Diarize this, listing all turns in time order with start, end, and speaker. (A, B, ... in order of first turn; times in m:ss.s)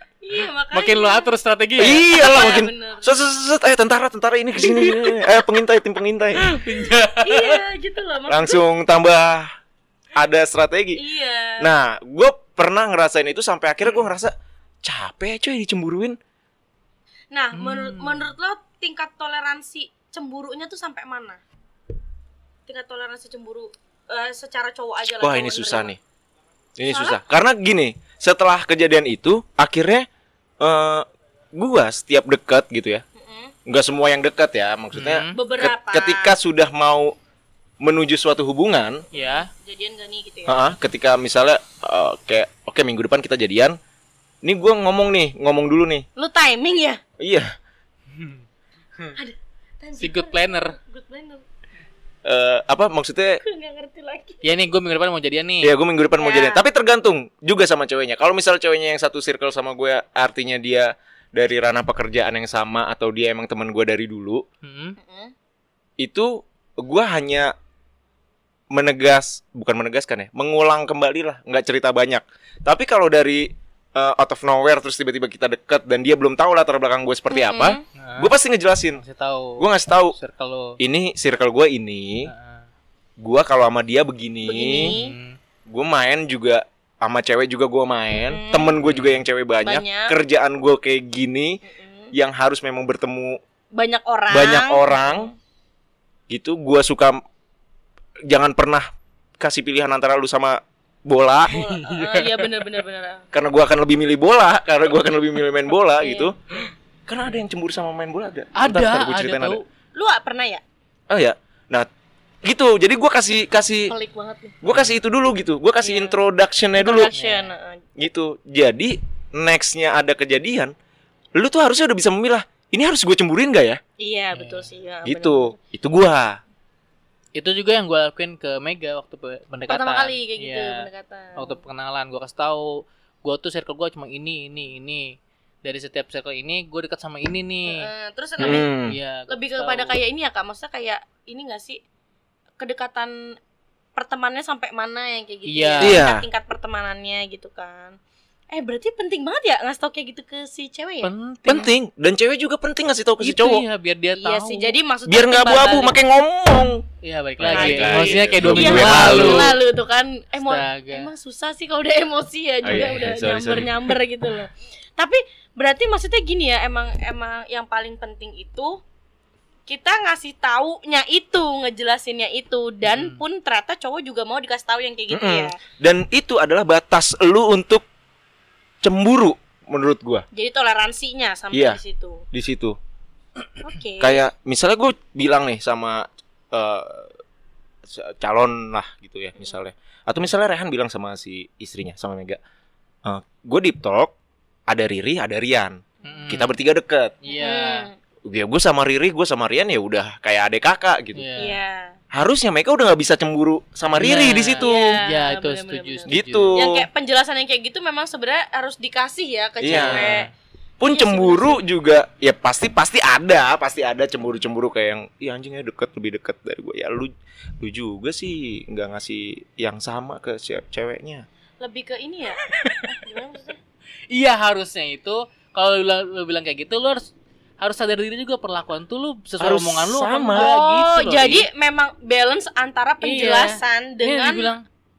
0:00.2-0:01.3 A
0:00.7-0:02.1 B
0:01.8-0:06.4 C
0:01.9-0:03.2 A
0:04.7-0:05.5 A
0:06.4-0:07.6 B
0:06.8-0:08.6 A
0:08.3-0:09.5 C
0:10.1-0:11.0 C
0:11.0-0:11.7 A
0:11.6-0:16.2 C
0:17.3-0:21.4 A
0:17.5-0:18.3 B
0:22.7-0:26.0 A
0:25.2-0:26.0 C
0:26.8-0:30.0 C
0:26.9-0:27.2 A
0:30.6-0:33.0 C
0:33.2-0:33.5 A
0:33.6-0:37.1 C
0:34.9-0:35.4 B
0:35.3-0:36.4 A
0:37.8-0:39.0 C
0:39.1-0:40.7 A
0:39.1-0:39.5 B
0:40.4-0:43.8 C
0:44.4-0:46.0 C
0:46.2-0:47.0 A
0:47.2-0:47.5 C
0:48.1-0:48.4 B
0:49.2-0:51.4 A
0:50.0-0:50.8 B
0:52.2-0:53.4 C
0:53.4-0:54.4 A
0:54.4-0:55.7 B
0:55.6-1:04.4 C
0:56.2-0:56.6 A
1:04.6-1:05.0 B
1:05.0-1:05.3 A
1:06.0-1:07.5 C
1:08.7-1:19.0 C
1:17.3-1:17.8 A
1:17.9-1:18.3 B
1:18.9-1:20.8 B
1:19.6-1:20.2 C
1:20.8-1:22.3 C
1:22.2-1:22.7 B
1:23.2-1:25.0 C
1:24.4-1:25.2 A
1:24.7-1:25.4 B
1:25.7-1:31.6 C
1:28.2-1:28.8 A
1:28.8-1:29.2 B
1:29.6-1:30.1 A
1:31.6-1:32.1 A
1:32.1-1:33.4 C
1:33.7-1:35.3 A
1:34.3-1:35.3 C
1:36.3-1:37.2 C
1:38.3-1:38.8 C
1:39.4-1:41.6 C
1:41.5-1:43.3 A
1:41.5-1:42.4 B
1:43.3-1:46.4 C
1:46.0-1:46.3 A
1:47.1-1:49.6 C
1:48.5-1:49.6 B
1:50.0-1:50.6 A
1:51.1-1:51.9 C
1:52.4-1:53.9 C
1:53.9-1:54.6 A
1:54.6-1:57.1 C
1:54.7-1:55.0 B
1:55.8-1:56.2 A
1:56.8-1:57.8 A
1:57.1-1:57.5 B
1:58.0-2:00.7 C
2:01.4-2:03.8 C
2:04.0-2:05.6 A
2:04.3-2:04.7 B
2:05.0-2:06.4 C
2:07.3-2:17.9 B
2:09.7-2:11.6 A
2:17.6-2:18.7 A
2:18.4-2:19.0 C
2:18.4-2:20.0 B
2:19.3-2:21.8 A
2:22.6-2:23.1 A
2:23.9-2:28.0 A
2:25.4-2:26.0 B
2:25.8-2:26.2 C
2:28.5-2:31.1 A
2:31.0-2:31.7 B
2:31.4-2:33.6 C
2:33.2-2:34.8 B
2:34.2-2:36.0 A
2:35.1-2:36.8 C
2:37.0-2:39.6 B
2:37.4-2:39.6 C
2:37.5-2:48.8 A
2:40.4-2:41.1 B
2:42.6-2:43.8 C
2:42.7-2:43.0 B
2:49.7-2:55.5 A
2:52.8-2:53.2 B
2:55.1-2:57.8 C
2:58.8-3:00.2 C
3:00.3-3:02.2 A
3:01.5-3:01.8 C
3:02.3-3:02.8 C
3:03.6-3:04.2 A
3:04.0-3:07.1 C
3:07.9-3:12.4 C
3:13.0-3:14.1 C
3:14.7-3:15.8 C
3:16.0-3:16.5 B
3:16.3-3:17.2 C
3:17.2-3:17.9 B
3:17.3-3:17.9 A
3:18.3-3:21.2 C
3:21.2-3:21.6 B
3:21.4-3:22.0 A
3:22.1-3:24.7 C
3:23.9-3:26.6 B
3:24.6-3:30.3 A
3:26.1-3:26.8 C
3:29.6-3:30.2 C
3:29.7-3:30.3 B
3:30.8-3:41.2 C
3:30.8-3:31.6 A
3:41.6-3:43.6 A
3:42.6-3:42.8 B
3:44.1-3:51.5 B
3:49.4-3:50.5 C
3:50.3-3:54.5 A
3:53.0-3:54.6 B